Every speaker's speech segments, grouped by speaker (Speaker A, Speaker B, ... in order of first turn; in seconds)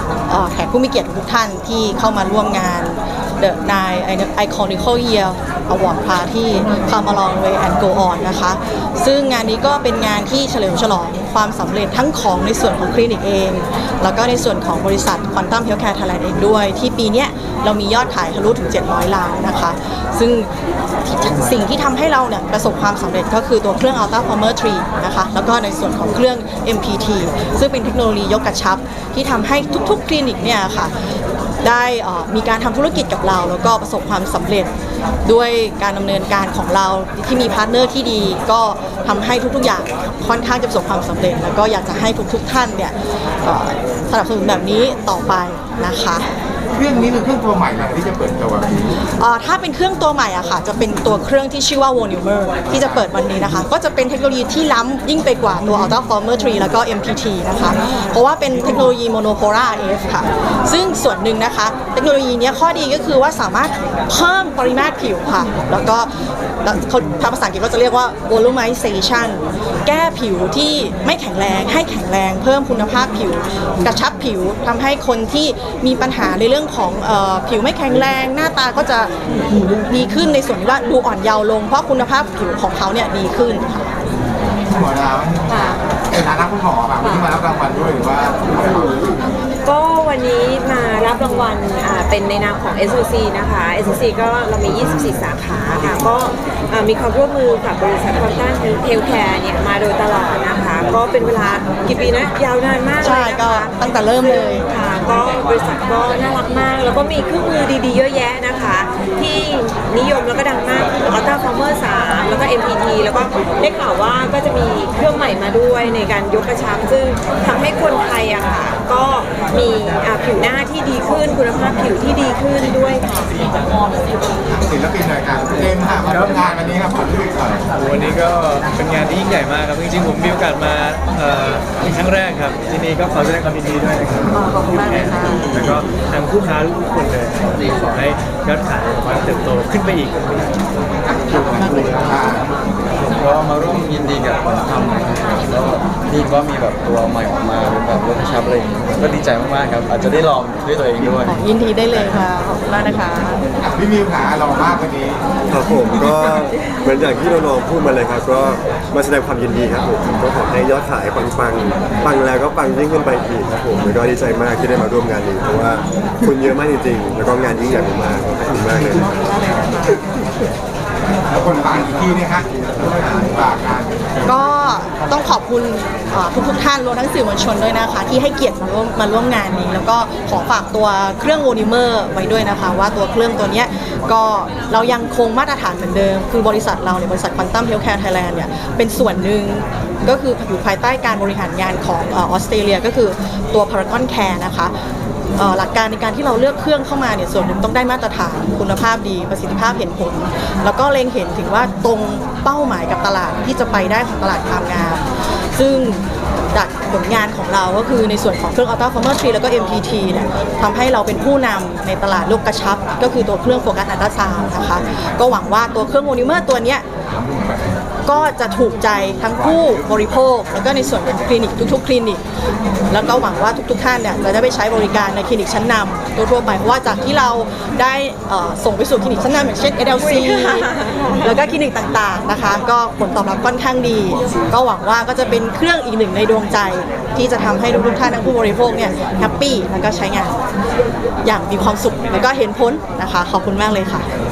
Speaker A: 0.3-20.5, 21.0-30.9, 31.6-34.7, 35.2-46.3, 49.1-66.1, 66.6-79.1, 79.8-83.9, 103.0-104.7, 134.3-135.5, 151.2-153.4, 168.9-170.0, 174.2-194.7, 195.4-216.8, 218.1-222.2, 222.9-240.3, 241.2-244.1
Speaker B: 46.7-49.0, 52.7-53.0, 84.5-89.2, 124.5-127.7, 141.1-142.4, 153.6-155.2, 171.3-174.3, 217.1-217.8
Speaker C: 87.0-87.3, 89.6-123.3, 230.0-231.2
Speaker D: 126.1-126.4, 127.7-140.5
Speaker E: 143.2-151.3
Speaker F: 155.5-169.1